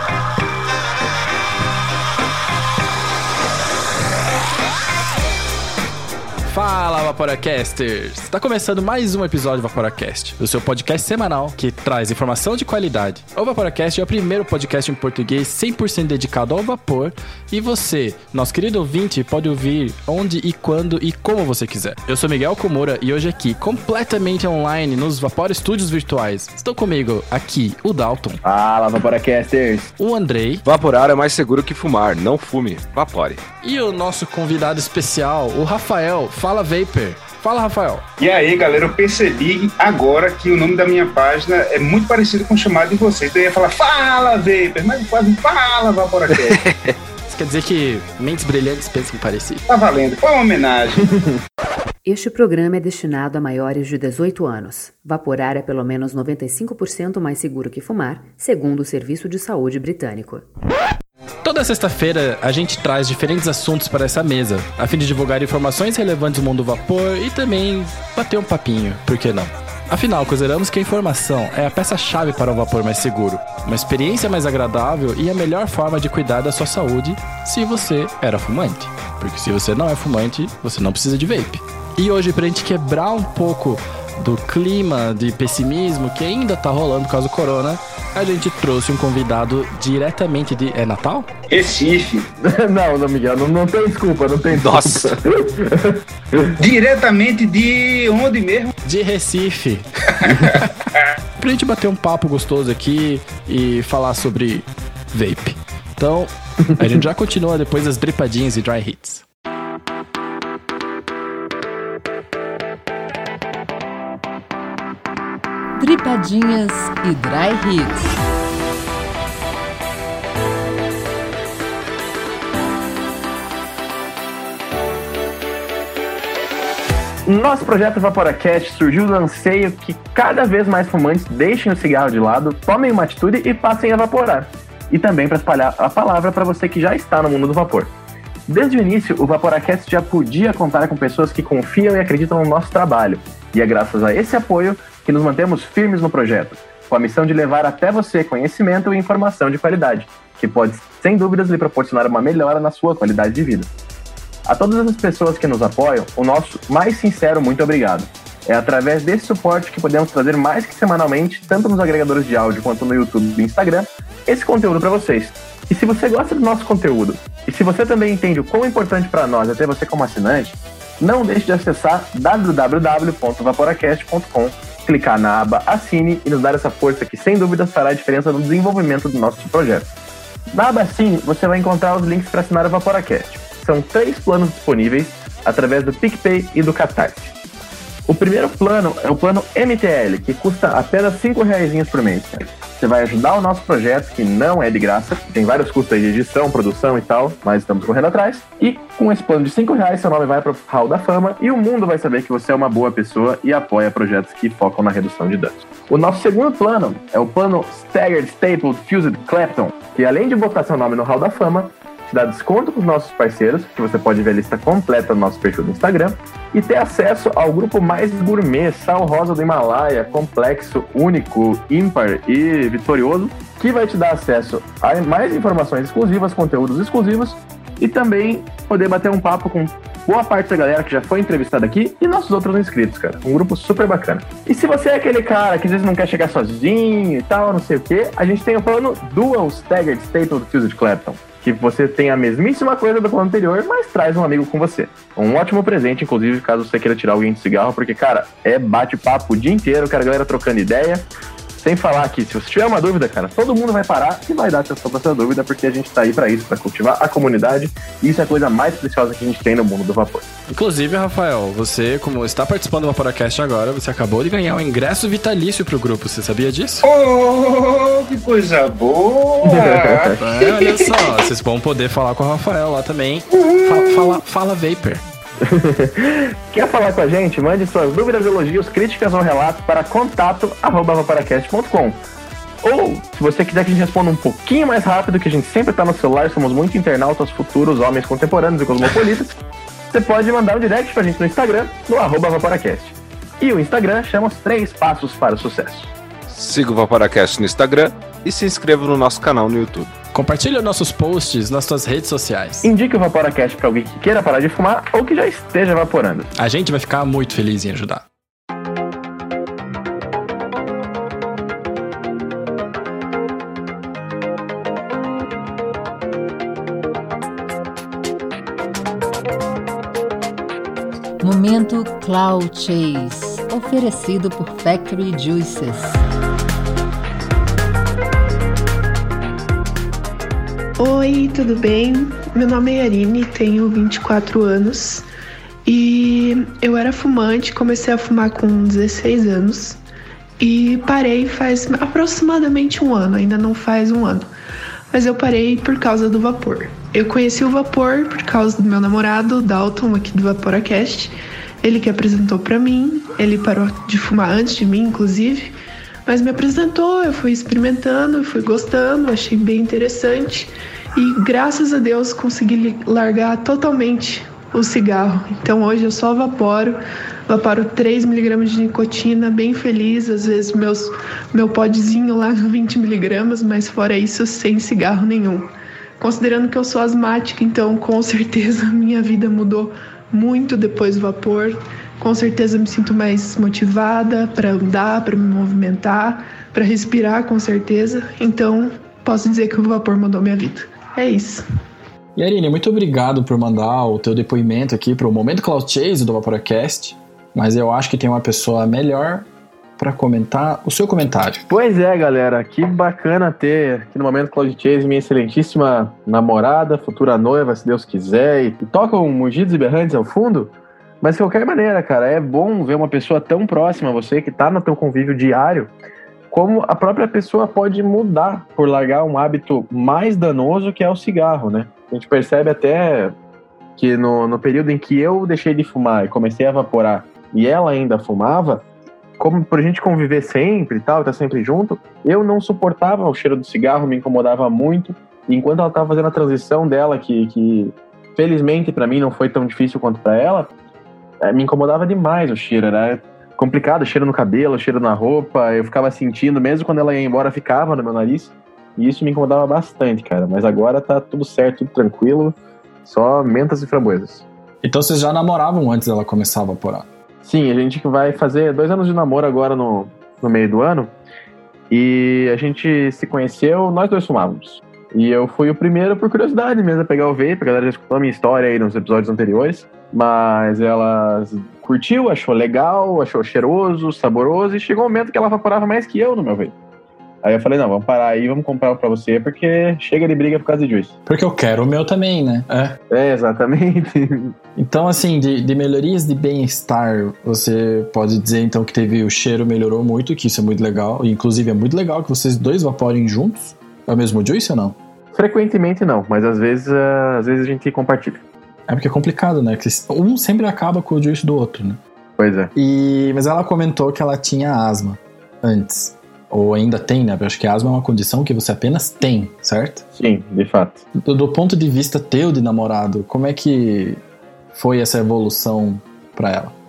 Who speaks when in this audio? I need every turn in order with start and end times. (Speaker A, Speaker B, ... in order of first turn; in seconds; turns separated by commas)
Speaker A: 6.5-28.4, Speaker B: 28.4-29.9, Speaker A: 30.0-30.6, Speaker C: 30.6-33.4, Speaker A: 33.6-38.0, Speaker D: 38.2-46.6, Speaker C: 46.4-46.9, Speaker A: 47.3-49.6, Speaker D: 49.7-51.1, Speaker E: 52.0-60.5, Speaker A: 61.4-91.3, Speaker D: 91.5-92.2, Speaker B: 92.4-96.6, Speaker C: 94.5-95.1, Speaker D: 96.6-98.7, Speaker A: 98.8-100.7, Speaker D: 100.2-100.5, Speaker A: 101.4-109.2, Speaker F: 115.8-118.0, Speaker B: 127.2-137.9, Speaker B: 138.5-153.7, Speaker B: 154.4-179.9, Speaker B: 180.5-187.3, Speaker B: 188.1-260.2, Speaker A: 260.5-266.9, Speaker D: 266.8-271.2, Speaker B: 269.4-270.2, Speaker A: 270.2-275.0, Speaker D: 273.3-274.2, Speaker B: 275.4-282.0, Speaker B: 282.6-289.4, Speaker B: 289.9-295.9, Speaker C: 296.3-299.9, Speaker A: 300.1-302.7, Speaker B: 302.6-306.3, Speaker A: 306.4-308.1, Speaker F: 321.2-326.0, Speaker G: 330.8-335.0, Speaker G: 335.6-339.8, Speaker G: 340.4-344.3, Speaker G: 344.9-355.5, Speaker G: 356.1-391.4, Speaker A: 392.1-399.3, Speaker A: 399.8-401.5, Speaker B: 401.5-415.7, Speaker B: 416.3-423.1, Speaker B: 423.8-428.6, Speaker B: 429.2-440.5, Speaker B: 441.2-454.2, Speaker A: 454.6-456.9, Speaker B: 457.2-460.9, Speaker B: 461.7-476.5, Speaker B: 477.2-480.9, Speaker A: 481.1-482.8, Speaker B: 482.9-484.3, Speaker A: 484.6-494.8, Speaker B: 495.1-498.2, Speaker A: 498.7-501.8, Speaker B: 502.2-502.5, Speaker A: 502.5-509.8, Speaker B: 510.0-510.8, Speaker A: 510.9-514.0, Speaker A: 514.5-516.5